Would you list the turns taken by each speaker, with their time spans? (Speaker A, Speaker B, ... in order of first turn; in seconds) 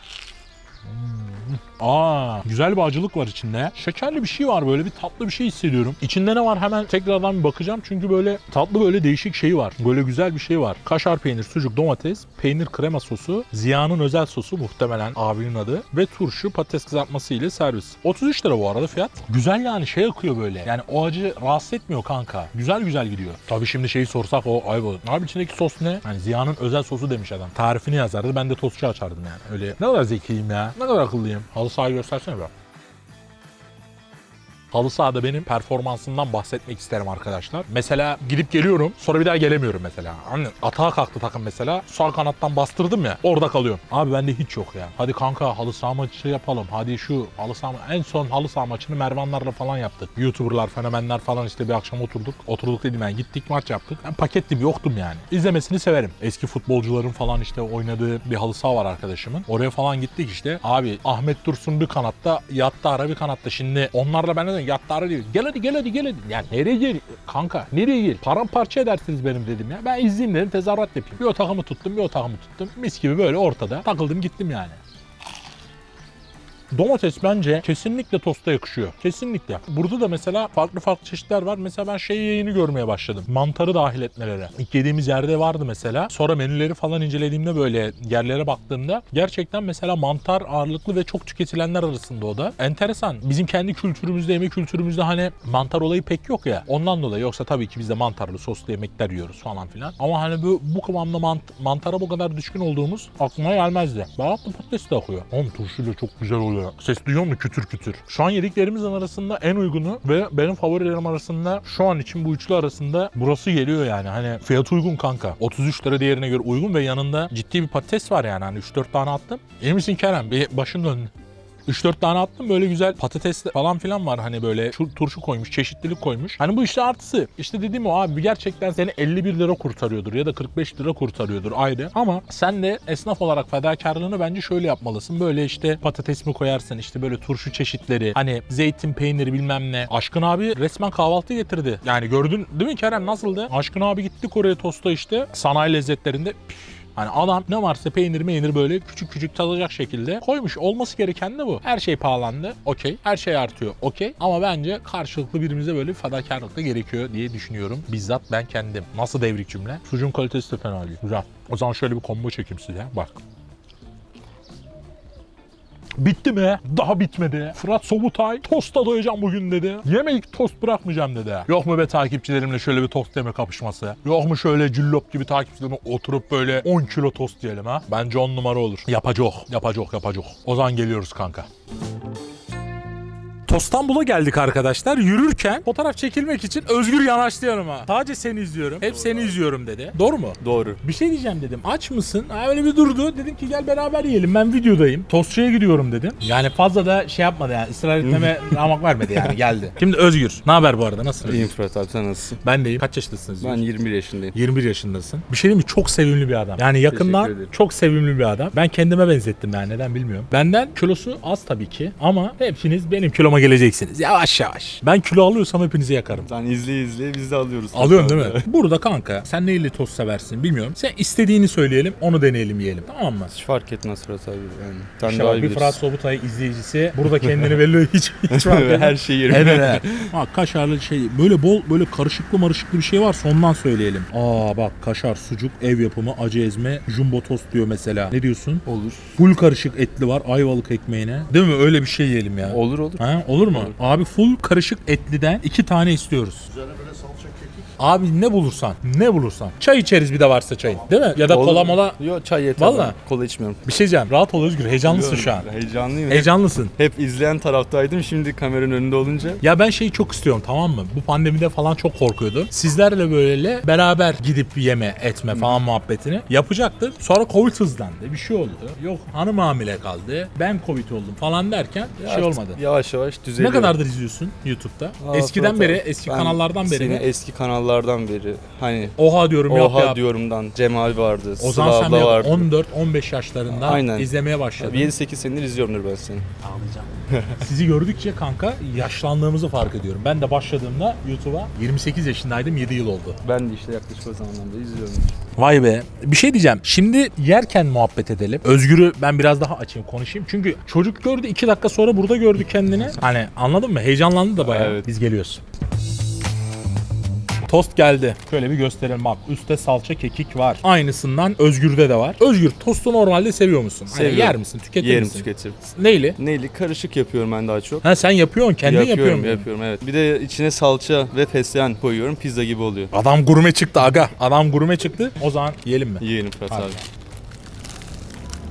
Speaker A: 0.9-32.5, 34.7-74.8, 76.7-121.1, 121.7-163.2, 166.0-181.5, 183.5-201.5, 202.4-203.6, 204.3-216.3, 217.7-223.3, 225.0-238.6, 239.2-246.5, 247.8-252.0, 252.6-252.9, 253.6-255.5, 256.1-256.7, 259.4-272.6, 273.4-277.0, 279.0-280.0, 281.4-284.9, 286.4-293.2, 295.4-305.4, 307.4-316.2, 317.8-319.4, 322.9-326.8
Speaker B: 188.8-189.4, 190.4-190.8, 198.0-199.4, 201.2-202.4, 203.4-204.3, 206.9-207.5, 216.2-218.4, 223.3-225.8, 228.3-230.1, 238.7-239.1, 242.4-243.0, 251.2-253.6, 254.8-259.4, 265.3-265.6, 272.0-273.8, 275.0-282.5, 283.5-286.3, 287.1-287.4, 293.2-295.2, 304.4-304.9, 313.9-315.6, 316.2-317.9, 318.6-322.9, 326.0-326.8